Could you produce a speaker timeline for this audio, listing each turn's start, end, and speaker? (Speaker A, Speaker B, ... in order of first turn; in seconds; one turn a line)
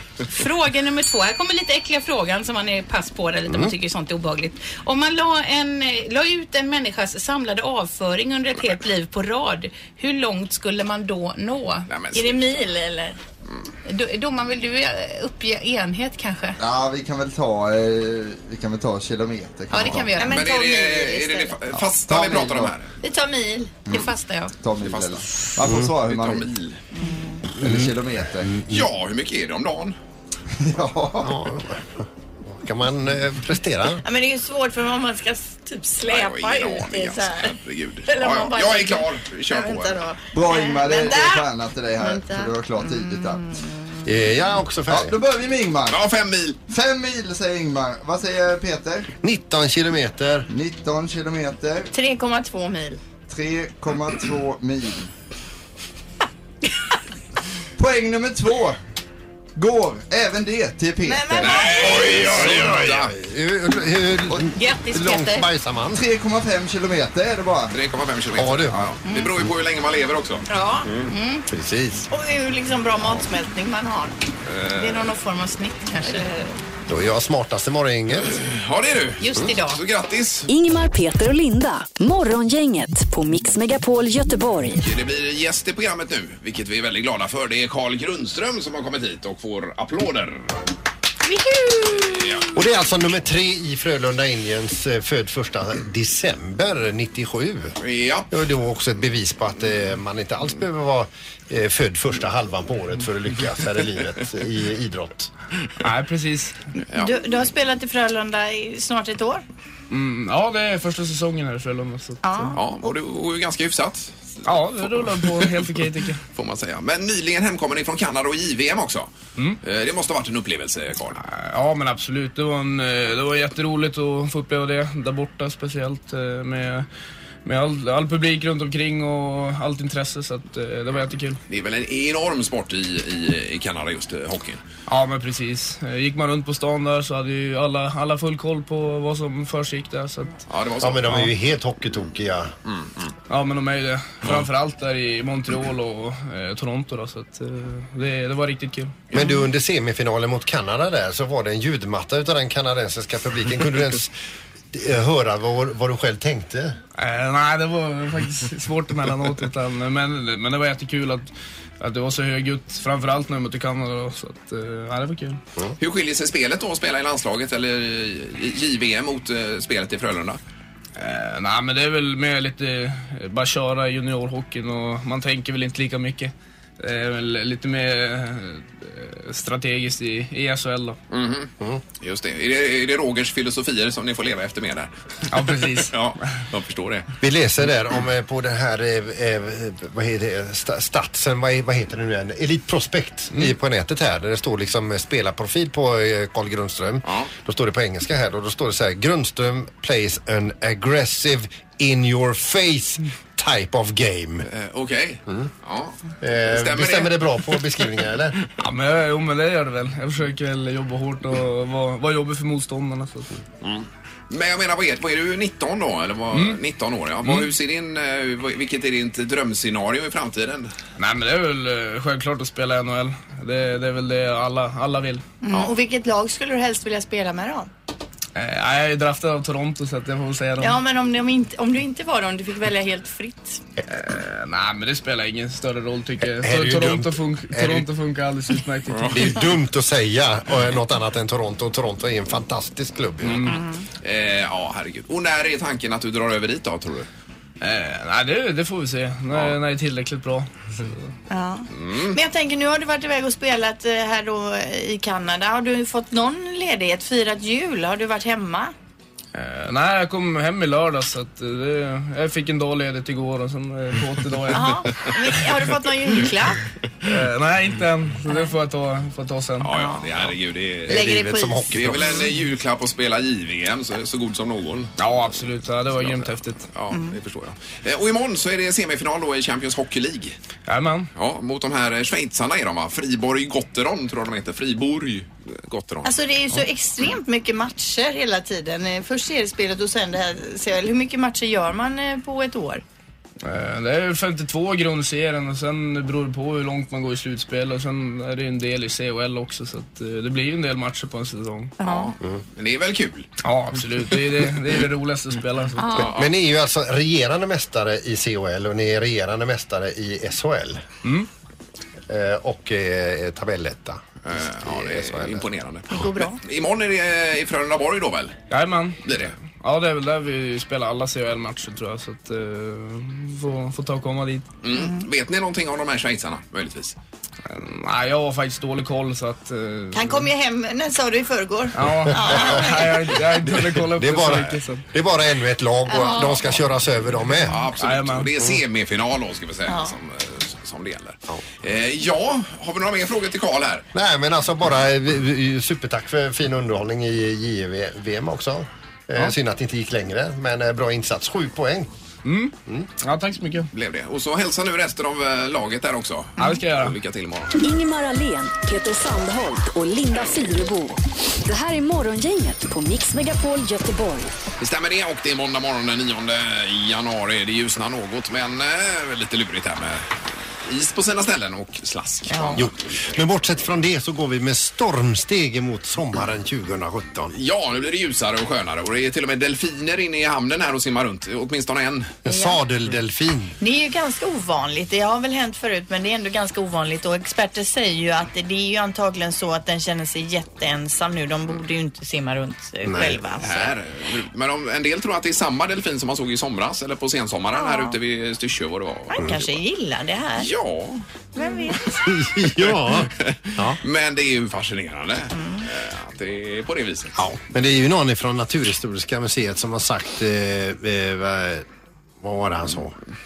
Speaker A: 0.3-11.9
Speaker B: 3.5-3.7
Speaker C: 11.9-12.6
Speaker D: 12.1-13.2
Speaker A: 13.8-16.6
Speaker E: 16.6-20.1
Speaker A: 19.7-20.4
Speaker D: 20.2-21.6
Speaker C: 20.3-22.9
Speaker E: 21.8-22.7
Speaker D: 23.0-23.8
Speaker E: 23.9-26.5
Speaker A: 23.9-24.5
Speaker C: 24.8-26.8
Speaker B: 25.6-25.9
Speaker D: 26.9-27.4
Speaker E: 27.5-28.5
Speaker B: 27.6-28.9
Speaker C: 28.7-29.9
Speaker E: 30.6-31.4
Speaker B: 31.2-34.0
Speaker D: 34.0-37.5
Speaker C: 36.1-40.0
Speaker D: 38.1-41.5
Speaker E: 40.3-43.4
Speaker D: 42.0-44.0
Speaker B: 44.0-45.2
Speaker E: 44.9-46.0
Speaker C: 45.9-46.6
Speaker E: 46.7-49.1
Speaker B: 49.2-50.5
Speaker E: 50.5-51.9
Speaker D: 51.9-53.0
Speaker E: 53.3-55.1
Speaker E: 57.8-58.8
Speaker E: 59.5-62.7
Speaker D: 61.0-62.3
Speaker C: 61.4-63.1
Speaker B: 61.7-66.0
Speaker A: 64.6-65.4
Speaker E: 65.9-67.7
Speaker C: 67.7-71.1
Speaker B: 68.3-68.9
Speaker A: 70.5-71.4
Speaker B: 71.5-72.1
Speaker D: 72.1-74.1
Speaker C: 74.5-75.1
Speaker D: 74.7-76.3
Speaker A: 76.0-76.4
Speaker B: 76.9-78.4
Speaker C: 78.1-80.5
Speaker A: 79.2-79.8
Speaker F: 80.5-84.8
Speaker C: 84.8-90.5
Speaker D: 91.2-92.2
Speaker C: 91.9-92.5
Speaker B: 92.5-97.8
Speaker C: 97.8-98.3
Speaker B: 98.3-105.3
Speaker G: 105.8-106.5
Speaker C: 106.9-107.1
Speaker D: 106.9-109.4
Speaker G: 109.9-112.5
Speaker D: 112.2-112.6
Speaker C: 112.5-115.7
Speaker G: 114.4-116.2
Speaker C: 116.3-119.1
Speaker C: 119.6-121.2
Speaker G: 121.2-126.9
Speaker G: 127.4-131.4
Speaker C: 131.5-134.6
Speaker G: 134.9-140.4
Speaker C: 140.5-141.3
Speaker B: 140.8-142.5
Speaker C: 142.7-143.1
Speaker G: 143.3-148.9
Speaker B: 149.1-154.1
Speaker B: 154.7-156.8
Speaker G: 157.0-161.3
Speaker G: 161.8-165.4
Speaker C: 165.8-170.4
Speaker G: 171.0-181.0
Speaker C: 181.1-184.9
Speaker G: 185.3-185.9
Speaker C: 185.5-187.1
Speaker B: 187.2-204.5
Speaker C: 204.5-207.6
Speaker B: 206.2-208.4
Speaker G: 208.6-213.3
Speaker C: 213.6-220.7
Speaker G: 216.3-216.6
Speaker G: 221.0-225.2
Speaker D: 225.4-227.7
Speaker G: 228.3-230.8
Speaker D: 230.6-233.6
Speaker G: 233.9-239.4
Speaker B: 236.3-237.9
Speaker B: 239.1-243.5
Speaker G: 243.3-243.6
Speaker D: 243.5-243.8
Speaker C: 244.0-247.1
Speaker G: 247.6-251.0
Speaker D: 251.3-258.7
Speaker C: 251.7-252.2
Speaker G: 259.3-264.9
Speaker D: 264.5-266.6
Speaker G: 267.0-269.7
Speaker C: 269.6-271.0
Speaker D: 269.7-270.1
Speaker B: 270.9-272.2
Speaker D: 270.9-272.1
Speaker C: 271.7-274.9
Speaker G: 275.0-276.7
Speaker C: 276.0-280.4
Speaker D: 276.9-277.1
Speaker G: 280.7-281.1
Speaker C: 281.1-286.1
Speaker D: 286.0-292.8
Speaker G: 293.4-301.7
Speaker D: 301.8-302.1
Speaker C: 301.8-303.3
Speaker G: 303.4-305.9
Speaker D: 305.8-306.1
Speaker C: 306.0-306.3
Speaker B: 306.0-310.8
Speaker B: 312.1-315.4
Speaker C: 314.2-318.4
Speaker D: 315.9-316.4
Speaker G: 318.5-324.5
Speaker C: 319.1-319.3
Speaker C: 324.6-326.9
Speaker D: 324.7-325.0
Speaker G: 327.5-330.2
Speaker D: 329.9-333.1
Speaker G: 331.8-334.8
Speaker B: 332.1-332.5
Speaker B: 333.4-337.6
Speaker D: 335.9-336.5
Speaker C: 337.5-343.9
Speaker G: 337.8-338.3
Speaker D: 339.7-339.9
Speaker B: 343.9-351.9
Speaker G: 352.2-353.7
Speaker C: 353.7-357.5
Speaker G: 356.4-356.9
Speaker F: 357.6-364.3
Speaker C: 364.6-373.3
Speaker D: 372.3-372.6
Speaker B: 372.6-377.3
Speaker C: 377.3-382.2
Speaker B: 382.2-383.6
Speaker D: 382.3-382.6
Speaker D: 383.6-393.7
Speaker B: 392.8-393.2
Speaker C: 393.4-399.6
Speaker D: 397.5-398.0
Speaker D: 399.1-400.5
Speaker C: 400.4-401.0
Speaker D: 401.4-402.1
Speaker B: 402.0-403.8
Speaker C: 402.4-407.1
Speaker D: 405.3-405.6
Speaker B: 407.1-411.6
Speaker B: 412.2-412.9